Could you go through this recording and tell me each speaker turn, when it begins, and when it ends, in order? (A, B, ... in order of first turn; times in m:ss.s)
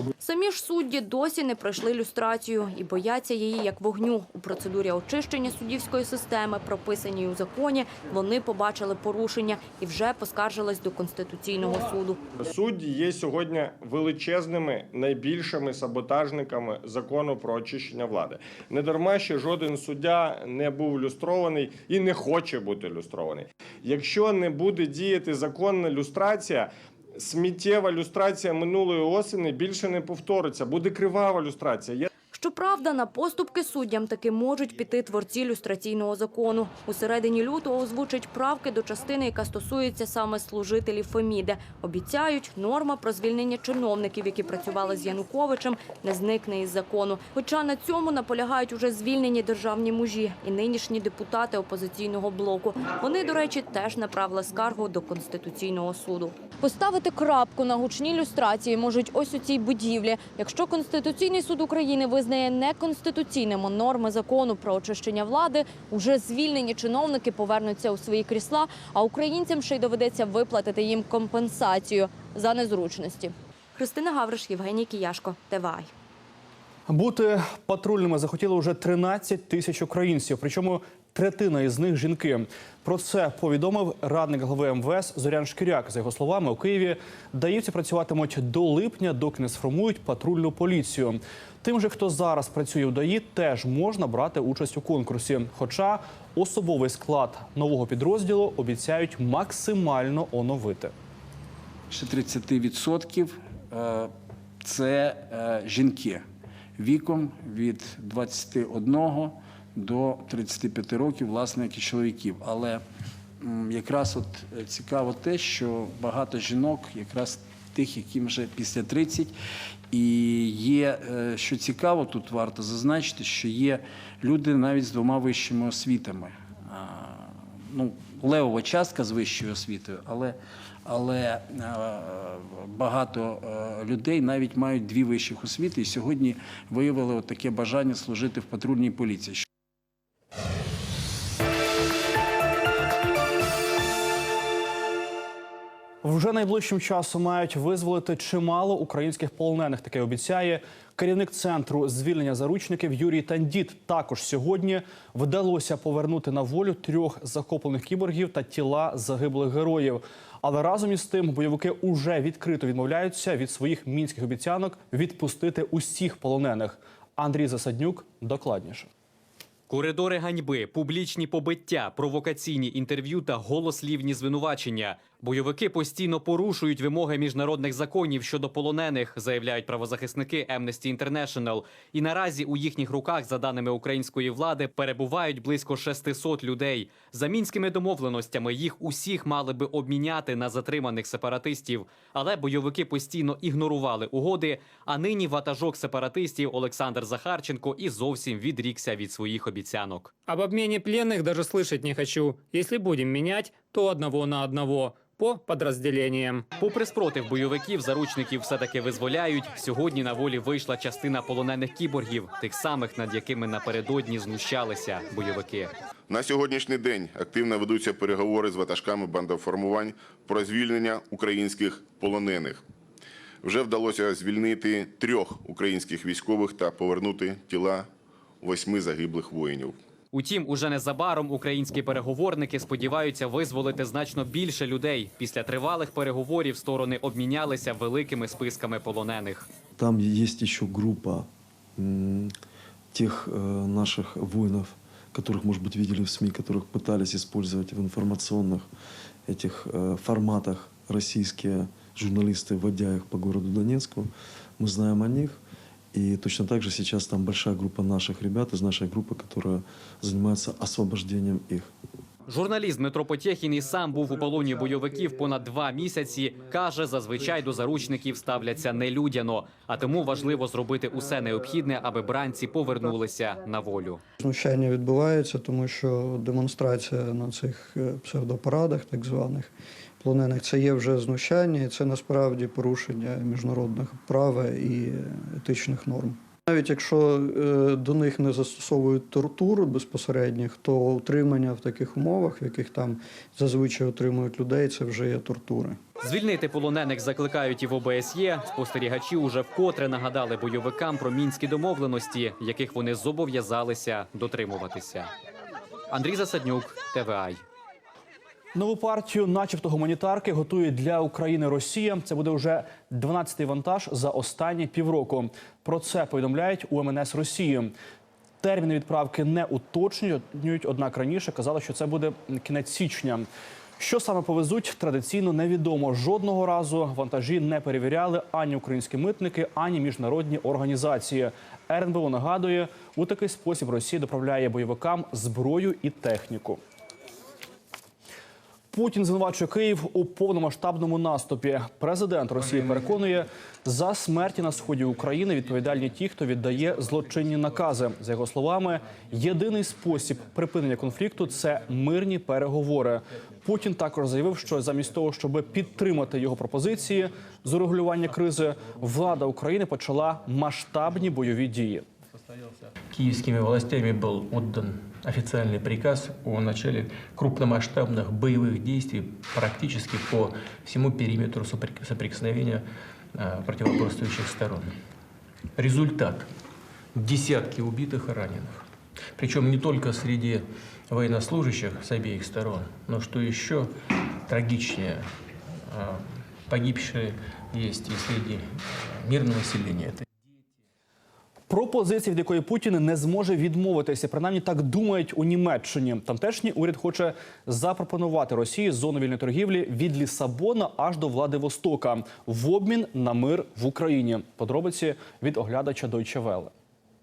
0:00.2-0:12.2 A
0:12.4-0:32.1 B
0:32.3-1:15.9 A
1:16.9-1:40.9 C
1:41.9-1:46.2 D
1:46.8-1:52.8 D
1:53.4-1:59.3 D
1:59.9-2:19.4 D
2:26.0-2:48.9 C
2:49.7-3:20.1 E
3:20.3-3:26.4 F
3:26.6-3:35.7 E
3:36.1-3:42.6 G
3:43.4-3:47.9 G
3:48.4-3:49.8 G
3:50.1-3:59.5 E
3:59.8-4:02.3 H
4:02.9-4:08.7 H
4:09.3-4:15.4 H
4:15.9-4:21.7 H
4:22.3-4:34.0 E
4:34.2-4:39.5 I
4:40.0-4:55.8 I
4:56.0-5:05.1 E
5:05.9-5:07.4 E
5:08.5-5:17.7 C
5:18.4-5:23.3 C
5:23.8-5:36.6 C
5:38.7-6:01.8 C
6:02.9-6:14.7 J
6:15.6-6:16.3 J
6:16.9-6:23.7 J
6:24.2-6:25.1 J
6:25.6-6:30.0 J
6:31.5-6:46.5 C